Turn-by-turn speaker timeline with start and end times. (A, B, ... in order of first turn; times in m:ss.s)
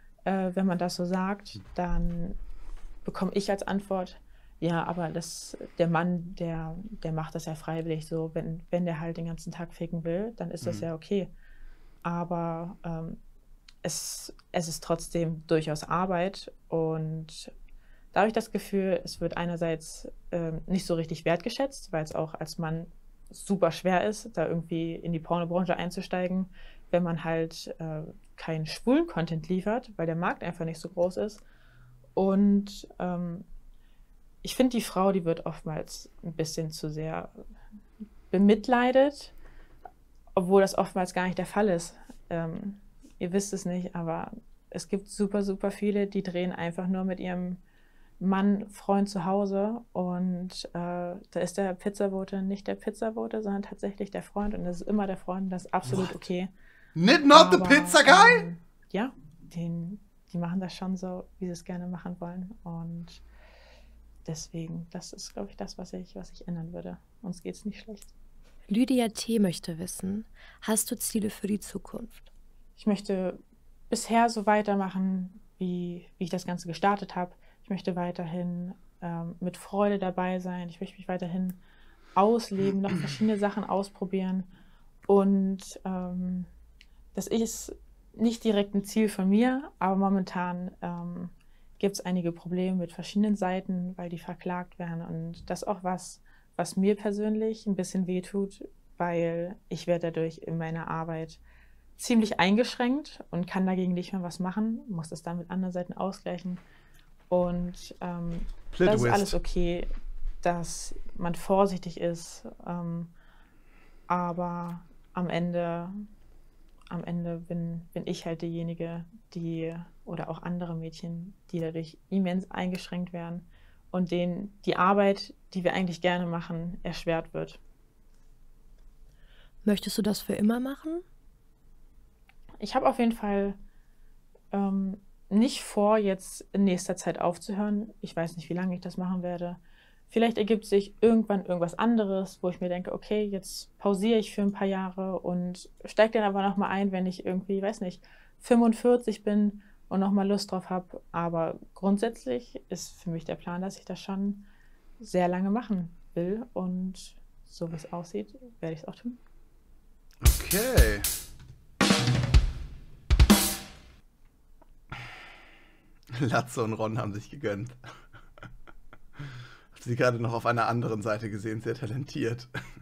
0:00.2-0:02.4 A
0:03.0-0:11.3 A
0:12.0-0:13.2 A
0:13.8-0:17.5 A
0:18.1-0:31.4 A
0:32.2-0:33.5 A
0:34.4-0:37.3 A
0:38.3-0:39.3 A
0:40.4-0:47.6 A
0:48.2-0:56.5 A
0:57.0-0:58.4 B
0:57.3-1:03.2 A
1:04.2-1:08.1 A
1:08.7-1:12.2 C
1:12.8-1:21.6 A
1:22.1-1:24.5 A
1:25.1-1:26.5 A
1:27.1-1:41.4 A
1:42.0-1:46.6 A
1:47.3-1:49.9 A
1:48.7-1:49.3 B
1:50.4-1:53.1 A
1:54.1-1:55.9 A
1:56.9-2:07.6 A
2:09.6-2:11.0 C
2:12.6-2:13.6 A
2:14.5-2:34.5 A
2:35.0-2:39.2 A
2:40.2-2:41.1 B
2:46.1-2:47.8 B
2:49.7-2:52.5 B